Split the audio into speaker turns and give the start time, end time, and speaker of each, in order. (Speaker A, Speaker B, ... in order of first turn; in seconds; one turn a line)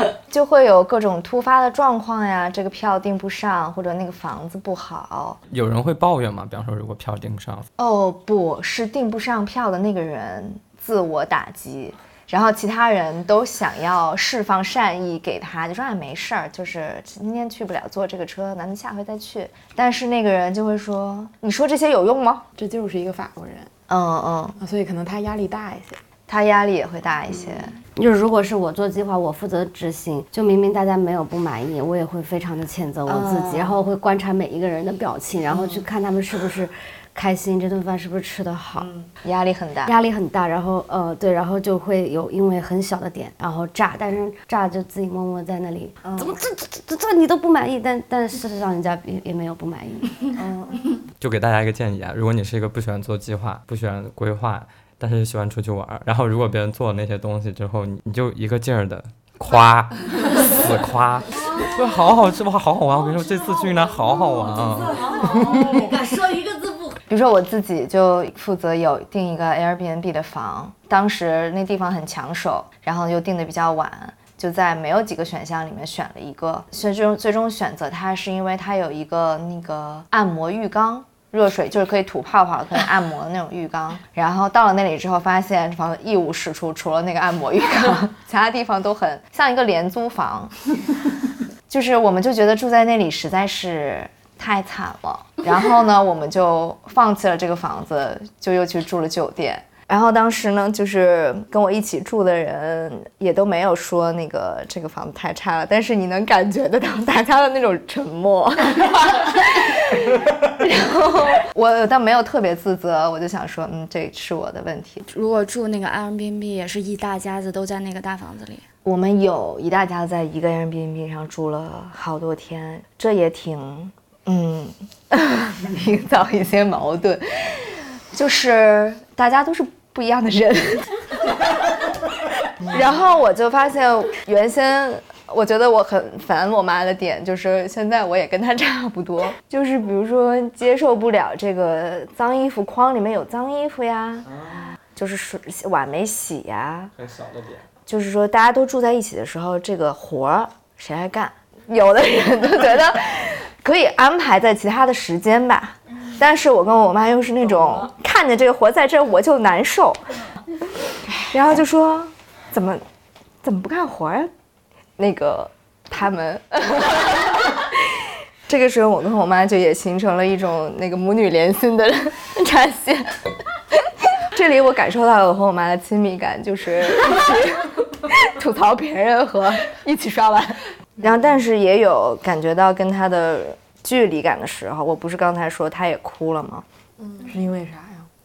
Speaker A: 0.3-5.4
Speaker B: 5.5-7.7
Speaker A: 7.8-22.4
Speaker C: 22.6-23.7
Speaker A: 23.9-24.6
Speaker C: 24.6-26.0
Speaker A: 26.3-27.7
Speaker D: 27.9-39.0
Speaker A: 33.1-33.7
Speaker A: 38.8-39.9
Speaker D: 39.8-50.8
Speaker A: 46.0-46.4
Speaker B: 51.2-65.8
Speaker D: 65.0-67.0
Speaker A: 67.0-90.5
Speaker A: 91.7-115.0
Speaker E: 115.0-118.6
Speaker A: 118.8-131.0
Speaker A: 132.6-144.2
Speaker A: 144.9-146.9
Speaker B: 147.0-147.6
Speaker A: 147.9-160.0
Speaker A: 161.3-162.8
Speaker A: 163.4-164.3
Speaker A: 165.0-173.1
Speaker A: 174.2-186.6
Speaker C: 187.2-188.1